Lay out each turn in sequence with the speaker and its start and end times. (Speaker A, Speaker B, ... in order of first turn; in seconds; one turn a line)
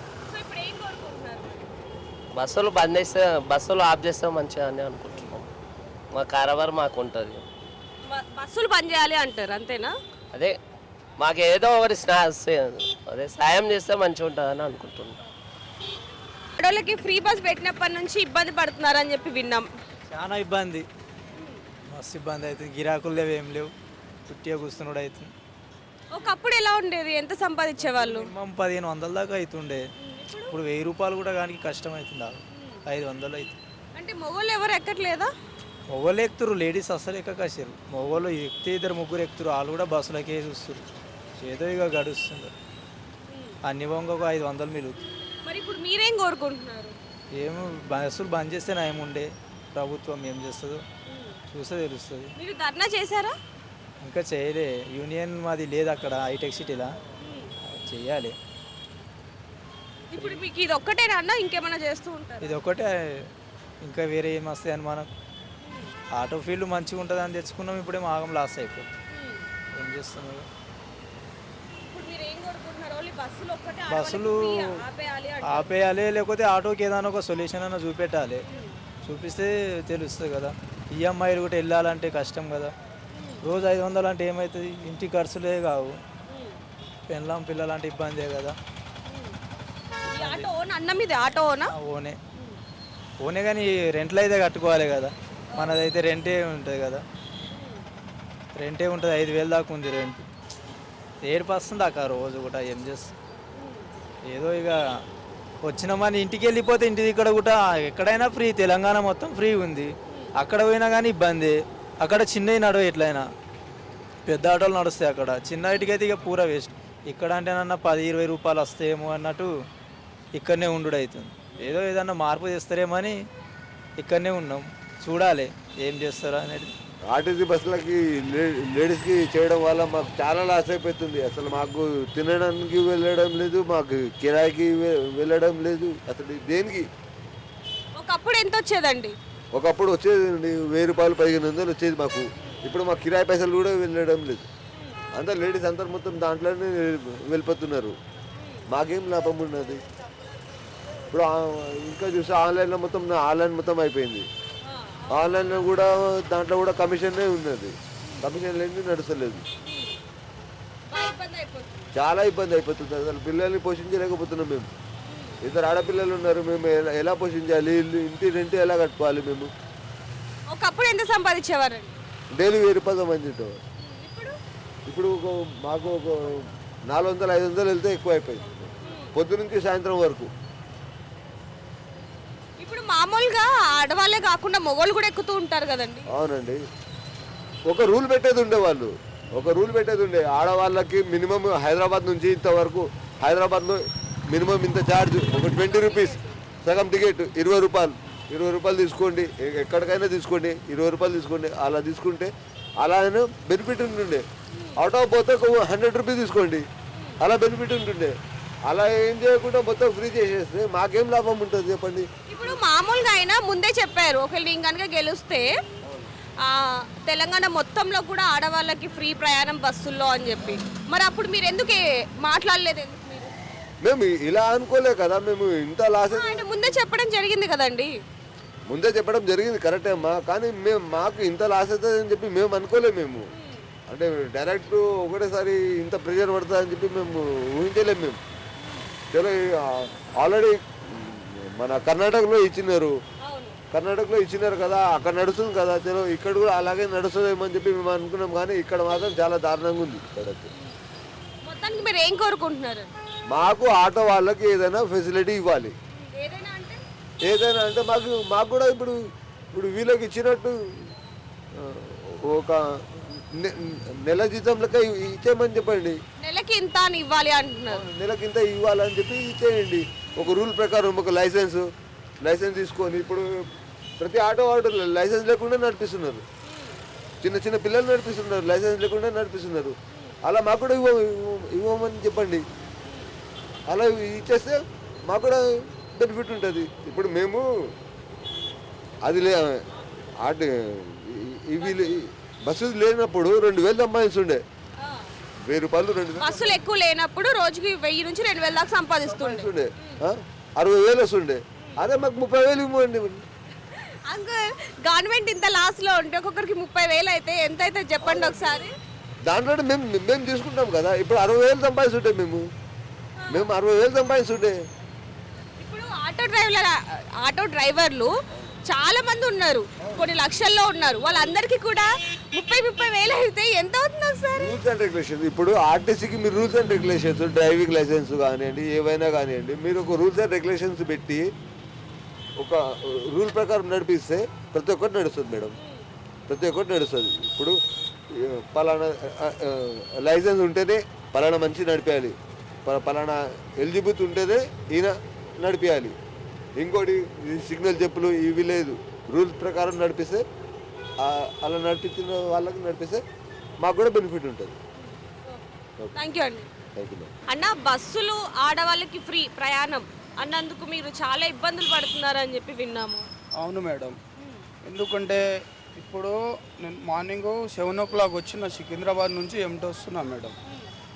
Speaker A: 0.3-1.7
Speaker B: 2.3-5.5
Speaker B: 6.1-7.4
Speaker A: 8.0-9.9
Speaker B: 11.2-15.2
Speaker A: 16.6-19.6
Speaker C: 20.1-20.9
Speaker C: 21.9-23.7
Speaker C: 24.3-25.3
Speaker A: 26.1-28.3
Speaker C: 27.8-29.8
Speaker A: 30.0-30.5
Speaker C: 30.5-33.5
Speaker A: 32.5-32.8
Speaker A: 33.9-35.3
Speaker C: 35.9-40.8
Speaker C: 41.4-42.5
Speaker A: 43.3-43.5
Speaker C: 43.7-45.0
Speaker A: 45.4-46.9
Speaker C: 47.4-50.8
Speaker A: 51.1-51.4
Speaker C: 51.5-52.3
Speaker A: 52.4-53.3
Speaker C: 54.0-56.9
Speaker A: 57.2-57.5
Speaker C: 57.6-58.4
Speaker A: 60.1-62.5
Speaker C: 62.4-63.3
Speaker C: 63.8-65.1
Speaker A: 65.6-65.9
Speaker C: 66.1-68.9
Speaker A: 69.1-69.5
Speaker C: 69.7-70.5
Speaker A: 71.9-75.7
Speaker C: 73.9-74.8
Speaker C: 75.4-78.4
Speaker A: 78.5-78.7
Speaker C: 79.0-82.7
Speaker A: 83.1-83.4
Speaker C: 83.4-86.0
Speaker A: 86.3-86.6
Speaker C: 87.1-88.6
Speaker A: 89.0-89.3
Speaker A: 90.1-91.7
Speaker C: 90.2-90.5
Speaker C: 91.7-92.2
Speaker C: 93.2-97.0
Speaker A: 95.5-95.8
Speaker A: 97.5-97.8
Speaker C: 98.5-100.2
Speaker C: 101.2-103.1
Speaker A: 103.5-103.9
Speaker C: 104.3-104.8
Speaker C: 105.7-113.2
Speaker C: 114.2-119.5
Speaker C: 120.3-123.2
Speaker C: 124.0-126.7
Speaker D: 127.1-136.9
Speaker A: 138.0-139.1
Speaker D: 139.5-144.4
Speaker A: 144.7-145.0
Speaker D: 145.1-147.9
Speaker D: 148.7-149.8
Speaker D: 151.1-154.3
Speaker A: 154.6-155.6
Speaker D: 155.1-159.4
Speaker A: 159.6-159.9
Speaker A: 160.9-161.9
Speaker D: 161.9-164.7
Speaker A: 165.0-165.4
Speaker D: 165.4-169.5
Speaker A: 170.5-171.9
Speaker D: 172.3-173.6
Speaker A: 173.8-174.4
Speaker D: 174.8-176.3
Speaker D: 176.9-180.3
Speaker A: 178.8-179.1
Speaker A: 182.6-186.1
Speaker D: 186.1-186.6
Speaker D: 187.7-193.8
Speaker D: 194.3-204.2
Speaker A: 195.3-196.3
Speaker A: 204.5-204.8
Speaker D: 204.8-206.6
Speaker D: 207.2-208.1
Speaker D: 208.7-212.1
Speaker A: 212.3-215.5
Speaker A: 216.4-223.3
Speaker D: 223.8-226.8
Speaker A: 226.1-227.9
Speaker D: 228.7-233.2
Speaker A: 233.3-233.6
Speaker D: 233.9-238.2
Speaker A: 238.6-238.9
Speaker D: 239.1-242.9
Speaker A: 243.2-243.6
Speaker D: 243.7-250.5
Speaker A: 251.4-252.9
Speaker D: 253.3-255.7
Speaker A: 255.9-256.8
Speaker D: 257.2-259.0
Speaker D: 259.5-260.9
Speaker D: 261.6-266.0
Speaker A: 266.2-267.8
Speaker D: 267.7-271.7
Speaker D: 272.2-273.3
Speaker D: 274.0-276.2
Speaker A: 276.4-276.8
Speaker D: 277.2-282.4
Speaker A: 282.8-283.1
Speaker D: 283.7-285.4
Speaker D: 285.9-287.4
Speaker D: 289.0-289.6
Speaker D: 290.2-294.4
Speaker A: 291.6-291.9
Speaker A: 294.8-295.1
Speaker D: 295.4-296.6
Speaker A: 296.2-300.0
Speaker D: 299.0-303.2
Speaker A: 303.7-308.7
Speaker D: 308.0-308.7
Speaker D: 309.3-312.4
Speaker A: 313.2-313.5
Speaker D: 313.3-314.6
Speaker A: 315.6-318.1
Speaker A: 318.7-324.6
Speaker D: 324.4-331.3
Speaker D: 332.4-335.5
Speaker A: 335.6-335.8
Speaker D: 336.3-337.6
Speaker D: 338.1-342.1
Speaker D: 342.6-345.9
Speaker D: 346.6-350.2
Speaker D: 351.0-353.0
Speaker D: 353.6-354.6
Speaker A: 355.9-356.5
Speaker D: 356.8-357.1
Speaker A: 357.3-363.1
Speaker E: 363.4-364.0
Speaker E: 364.6-365.2
Speaker E: 365.8-370.4